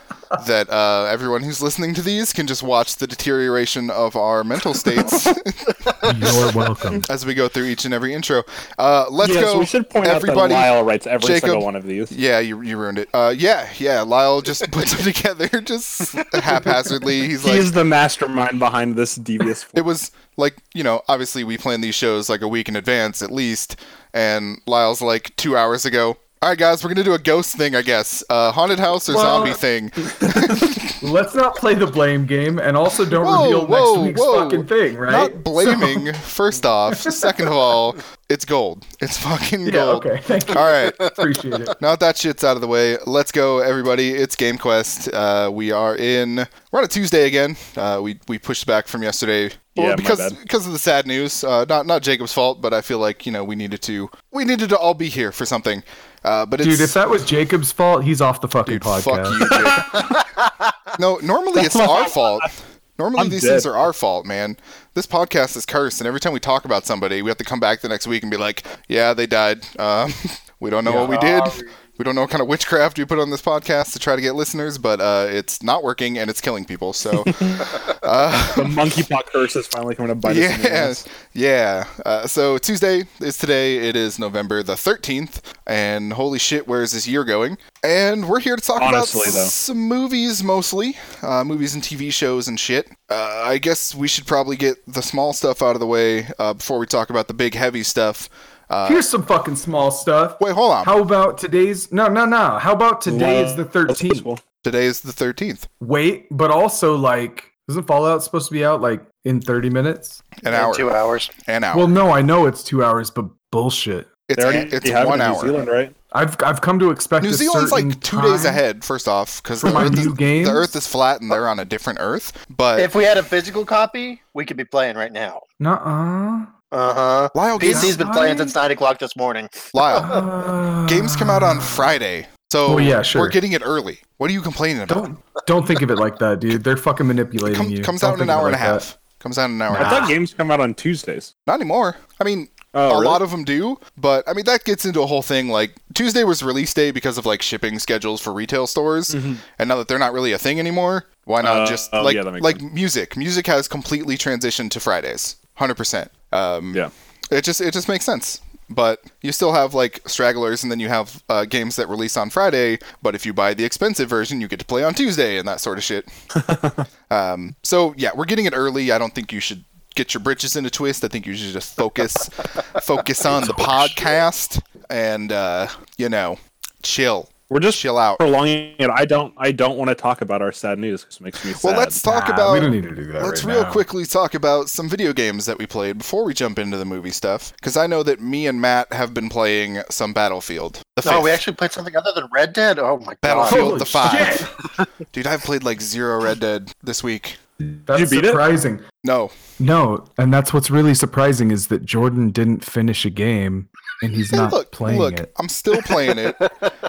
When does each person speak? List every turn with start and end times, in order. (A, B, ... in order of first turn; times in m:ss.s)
0:00.3-0:17.7 A
0:06.0-0:07.1 B
0:09.2-0:12.1 C
0:17.4-0:19.8 C
0:19.8-0:31.0 A
0:29.1-0:29.6 B
0:31.0-0:36.1 B
0:33.2-0:41.1 A
0:36.9-0:37.5 B
0:39.6-0:41.8 B
0:40.6-0:41.6 D
0:41.8-0:57.0 A
0:49.8-0:50.4 C
0:56.6-0:59.5 B
0:58.6-1:00.0 A
0:59.4-0:59.8 C
0:59.9-1:00.7 D
1:01.0-1:18.8 A
1:01.5-1:02.5 C
1:03.2-1:03.7 C
1:11.1-1:11.8 D
1:17.2-1:17.5 C
1:18.4-1:21.0 C
1:20.2-1:39.0 A
1:28.8-1:29.5 C
1:38.8-1:44.3 B
1:40.4-1:40.9 A
1:43.1-1:44.4 C
1:44.6-1:45.7 A
1:45.8-1:50.2 B
1:50.4-1:51.9 A
1:50.5-1:51.3 D
1:51.7-1:54.1 B
1:54.3-1:55.6 A
1:54.4-1:55.9 C
1:56.1-1:58.6 B
1:57.2-2:02.9 A
1:59.6-2:00.7 B
2:02.8-2:05.4 D
2:05.6-2:06.5 B
2:06.7-2:10.2 D
2:07.3-2:08.0 A
2:07.6-2:08.6 B
2:09.7-2:10.2 A
2:09.9-2:11.9 B
2:10.9-2:15.1 A
2:12.7-2:13.4 B
2:14.9-2:18.9 B
2:17.4-2:20.2 A
2:19.7-2:21.3 C
2:19.7-2:20.1 B
2:21.5-2:46.1 A
2:22.7-2:23.2 C
2:29.1-2:29.4 C
2:31.4-2:32.6 C
2:46.4-2:46.8 C
2:47.1-2:58.2 A
2:53.2-2:54.2 B
2:57.5-3:02.0 C
3:01.5-3:11.4 A
3:02.0-3:03.8 B
3:11.0-3:14.3 D
3:13.2-3:14.5 A
3:13.5-3:14.5 B
3:15.1-3:17.4 A
3:17.6-3:18.8 B
3:17.9-3:18.4 C
3:19.0-3:19.4 A
3:19.6-3:25.3 B
3:24.3-3:26.5 A
3:25.9-3:26.7 D